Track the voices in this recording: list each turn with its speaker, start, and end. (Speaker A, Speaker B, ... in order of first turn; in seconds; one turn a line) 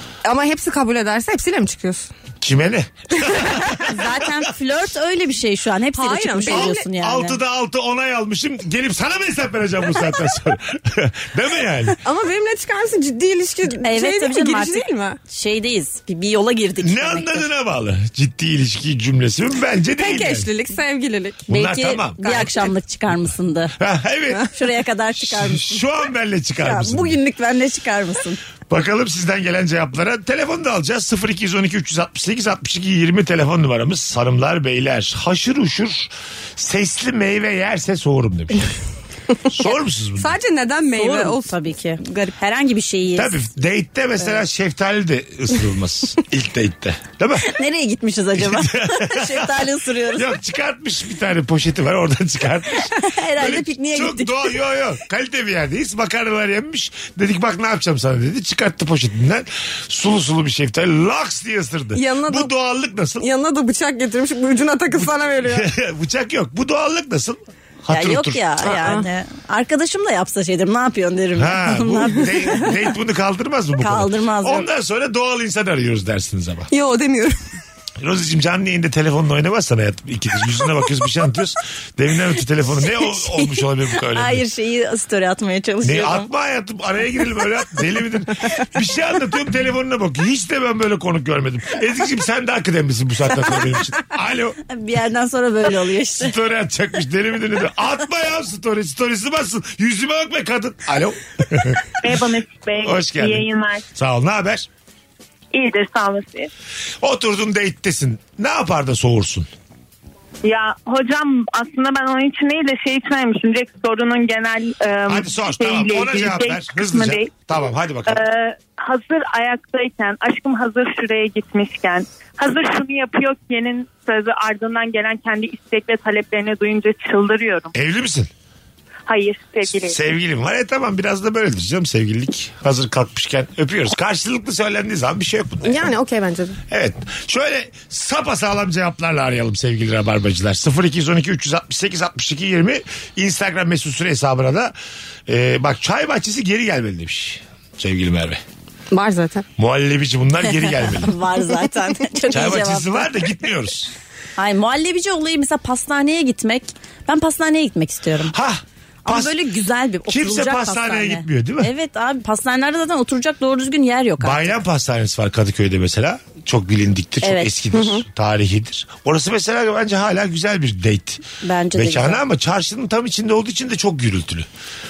Speaker A: 0.2-2.1
Speaker B: 2.4-4.4
Speaker C: 3.8-7.4
Speaker A: 5.9-6.8
Speaker B: 6.5-12.0
Speaker A: 12.0-15.2
Speaker C: 13.8-17.4
Speaker B: 16.8-20.5
Speaker A: 20.0-21.5
Speaker B: 21.5-22.5
Speaker C: 21.5-23.7
Speaker A: 22.2-22.7
Speaker B: 23.8-24.5
Speaker C: 24.5-25.8
Speaker B: 25.1-27.2
Speaker C: 26.6-28.4
Speaker B: 28.7-38.8
Speaker B: 39.5-40.4
Speaker A: 40.2-42.4
Speaker C: 41.0-43.4
Speaker B: 43.1-47.5
Speaker C: 47.4-50.3
Speaker B: 48.4-63.2
Speaker C: 53.0-54.5
Speaker A: 61.9-62.5
Speaker A: 63.2-65.7
Speaker B: 65.0-68.8
Speaker C: 67.9-72.7
Speaker A: 68.7-69.0
Speaker B: 71.4-76.7
Speaker C: 73.8-74.7
Speaker A: 76.7-77.4
Speaker B: 78.0-84.4
Speaker C: 83.0-86.3
Speaker B: 85.8-94.6
Speaker C: 94.7-96.3
Speaker B: 96.2-102.0
Speaker D: 102.0-103.8
Speaker B: 102.8-104.7
Speaker D: 105.5-106.5
Speaker B: 107.0-109.5
Speaker D: 110.4-117.3
Speaker B: 115.1-118.2
Speaker D: 118.1-127.7
Speaker B: 127.7-128.3
Speaker D: 129.1-130.0
Speaker B: 129.8-135.9
Speaker A: 135.6-136.6
Speaker B: 136.7-144.7
Speaker B: 145.3-148.4
Speaker A: 148.9-149.4
Speaker B: 149.6-151.2
Speaker C: 150.6-153.1
Speaker B: 152.3-153.9
Speaker C: 154.4-158.3
Speaker B: 158.3-159.4
Speaker C: 159.0-164.5
Speaker B: 160.1-161.7
Speaker B: 164.2-171.2
Speaker C: 167.2-167.5
Speaker A: 167.7-168.0
Speaker C: 171.4-172.2
Speaker B: 171.7-174.5